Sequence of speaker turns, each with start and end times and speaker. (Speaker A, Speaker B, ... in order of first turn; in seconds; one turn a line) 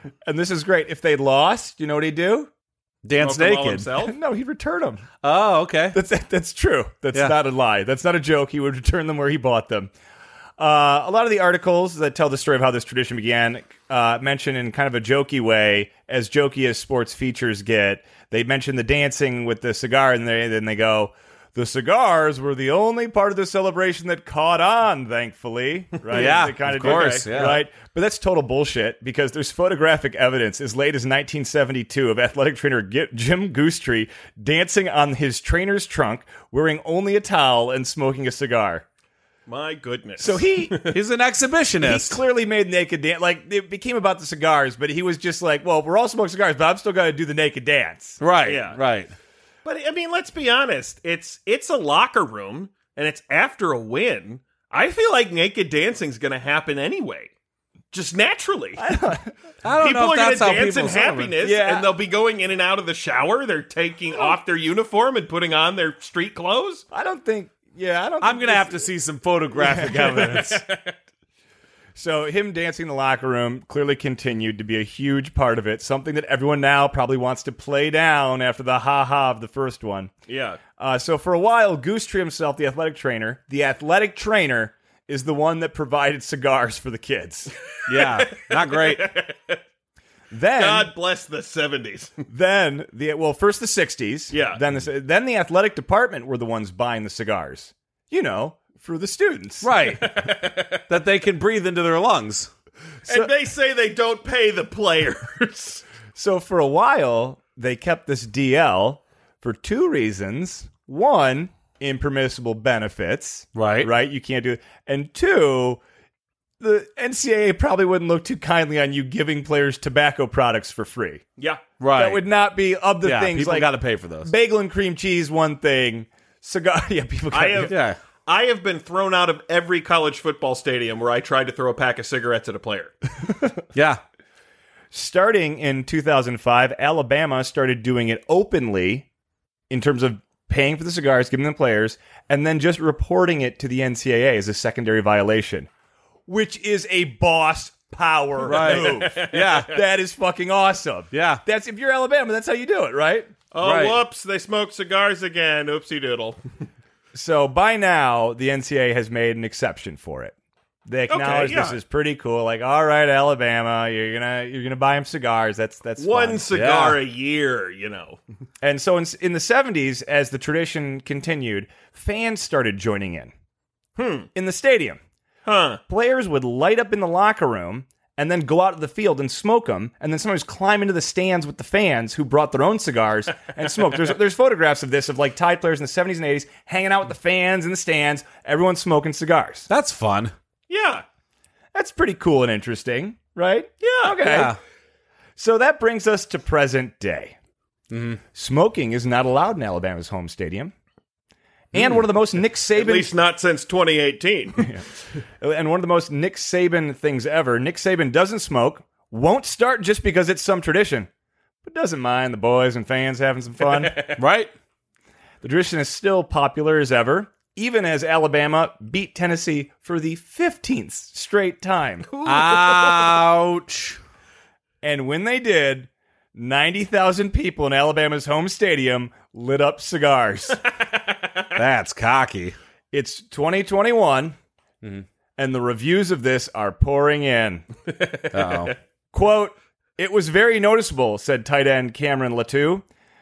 Speaker A: 0.2-2.5
Speaker B: 3.0-3.9
Speaker C: 3.2-4.2
Speaker A: 4.0-5.0
Speaker B: 5.2-6.0
Speaker A: 5.9-9.9
Speaker A: 10.6-38.9
Speaker B: 26.1-27.6
Speaker C: 26.1-27.3
Speaker C: 39.5-41.0
Speaker A: 40.2-40.8
Speaker B: 40.9-42.2
Speaker A: 41.8-48.2
Speaker B: 48.2-49.1
Speaker C: 48.4-48.8
Speaker C: 49.6-57.3
Speaker C: 57.9-58.8
Speaker A: 58.8-59.4
Speaker B: 59.6-61.3
Speaker C: 59.8-66.8
Speaker A: 61.4-61.9
Speaker A: 66.9-68.9
Speaker B: 68.2-70.6
Speaker A: 69.5-70.5
Speaker C: 70.0-71.0
Speaker A: 71.9-80.1
Speaker C: 80.3-80.6
Speaker A: 80.8-87.5
Speaker B: 87.9-89.1
Speaker C: 87.9-89.6
Speaker A: 90.3-90.9
Speaker C: 90.5-92.2
Speaker A: 92.3-99.7
Speaker C: 94.3-94.6
Speaker B: 99.6-100.1
Speaker C: 99.9-100.8
Speaker B: 100.9-102.5
Speaker C: 103.0-105.8
Speaker A: 103.1-103.3
Speaker A: 106.1-115.8
Speaker B: 113.5-113.9
Speaker A: 116.6-121.2
Speaker B: 121.8-122.2
Speaker A: 121.9-127.7
Speaker B: 123.0-124.3
Speaker C: 127.3-127.7
Speaker B: 127.7-128.0
Speaker C: 128.2-132.9
Speaker B: 133.7-134.0
Speaker A: 134.9-139.1
Speaker A: 139.7-145.7
Speaker A: 146.3-153.3
Speaker B: 148.4-149.7
Speaker C: 148.4-149.6
Speaker B: 151.1-151.4
Speaker C: 153.5-156.4
Speaker B: 153.6-154.0
Speaker A: 157.1-160.3
Speaker A: 160.8-166.4
Speaker C: 161.1-161.8
Speaker C: 166.0-168.2
Speaker B: 166.5-167.0
Speaker A: 168.6-173.3
Speaker C: 174.0-174.3
Speaker A: 174.3-175.0
Speaker C: 175.4-175.8
Speaker A: 175.9-189.7
Speaker B: 189.7-190.3
Speaker C: 190.7-191.0
Speaker A: 191.7-194.6
Speaker C: 193.8-194.2
Speaker B: 194.2-194.6
Speaker A: 195.3-197.3
Speaker B: 197.9-198.2
Speaker A: 198.3-200.7
Speaker A: 201.7-203.1
Speaker C: 202.7-204.7
Speaker A: 204.6-204.8
Speaker A: 205.4-211.1
Speaker A: 211.6-213.9
Speaker C: 213.6-214.2
Speaker B: 214.2-214.5
Speaker A: 215.4-222.1
Speaker C: 222.1-223.2
Speaker B: 222.2-224.0
Speaker A: 224.8-230.6
Speaker C: 230.9-231.4
Speaker B: 231.6-232.6
Speaker A: 232.9-234.3
Speaker A: 235.4-237.7
Speaker C: 237.9-238.7
Speaker B: 238.3-238.7
Speaker A: 239.1-242.8